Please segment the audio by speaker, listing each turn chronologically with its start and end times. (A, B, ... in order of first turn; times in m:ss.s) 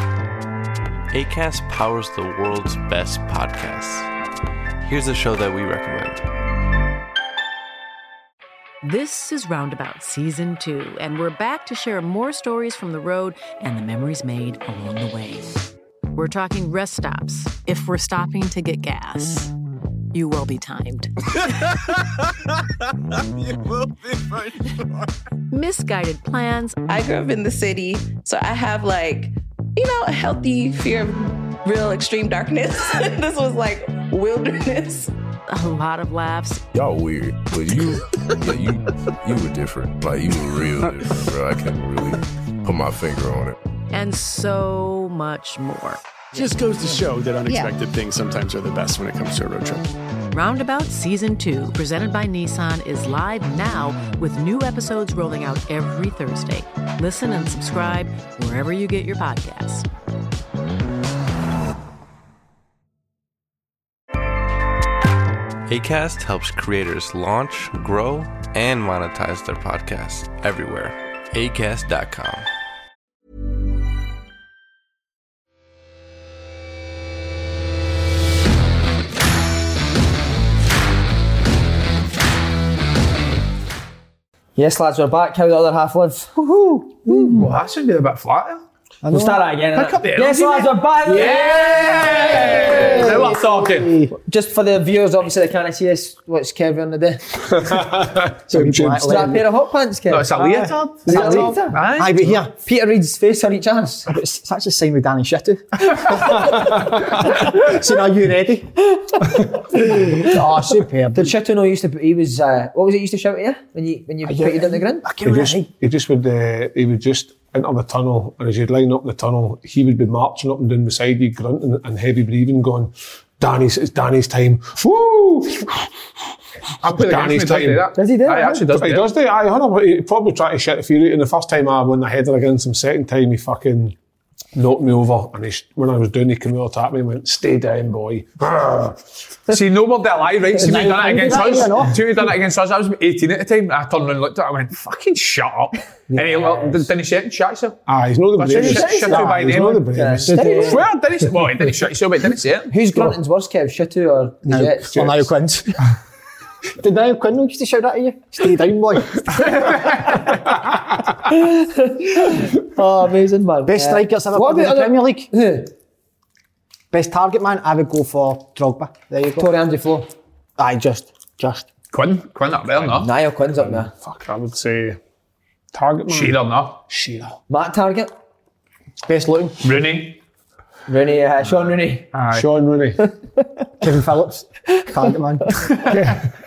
0:01.1-0:04.1 A
0:04.8-0:06.3 A
0:08.8-0:15.6 B
0:16.2-0:19.5 B
0:20.1-0:21.1 B
0:25.5-0:26.8 B
0:26.9-0:35.1 C
0:35.5-0:36.7 B
0:36.7-0:43.6 D
0:43.9-0:46.0 B
0:46.3-0:49.9 E
0:50.3-0:59.9 B
1:05.7-1:12.5 A
1:24.6-1:27.4 F
1:27.1-1:28.6 G
1:29.0-1:29.4 H
1:29.1-1:33.3 F
1:29.8-1:33.9 G
1:32.1-1:34.1 H
1:34.2-1:37.2 F
1:37.5-1:39.4 I
1:38.5-1:39.4 H
1:39.0-1:40.5 F
1:40.1-1:42.2 G
1:40.4-1:42.5 H
1:41.1-1:41.8 F
1:42.5-1:44.1 F
1:44.1-1:48.7 H
1:49.8-1:51.4 H
1:49.9-1:50.3 F
1:51.1-1:55.0 F
1:54.3-1:55.7 H
1:55.2-2:05.9 I
2:06.8-2:09.1 G
2:06.8-2:07.9 I
2:08.0-2:08.6 F
2:08.7-2:14.0 I
2:14.5-2:19.0 I
2:19.5-2:27.8 G
2:20.6-2:22.1 H
2:20.7-2:21.5 F
2:26.1-2:26.4 H
2:26.2-2:26.9 F
2:27.9-2:30.7 I
2:28.4-2:29.8 G
2:28.5-2:30.8 F
2:30.3-2:30.8 H
2:30.5-2:32.7 G
2:32.7-2:35.2 F
2:34.4-2:35.8 H
2:36.8-2:39.8 H
2:41.2-2:45.7 F
2:43.7-2:45.3 H
2:46.9-2:49.5 H
2:49.4-2:50.1 F
2:50.6-2:51.7 H
2:51.9-2:53.1 G
2:53.0-2:53.9 F
2:53.6-2:55.0 I
2:55.7-2:57.4 I
2:56.1-2:56.8 G
2:57.5-2:58.1 F
2:59.0-2:59.6 H
2:59.6-3:00.2 G
3:00.9-3:02.1 F
3:02.1-3:02.5 G
3:02.3-3:03.1 I
3:03.8-3:06.0 H
3:05.9-3:06.2 I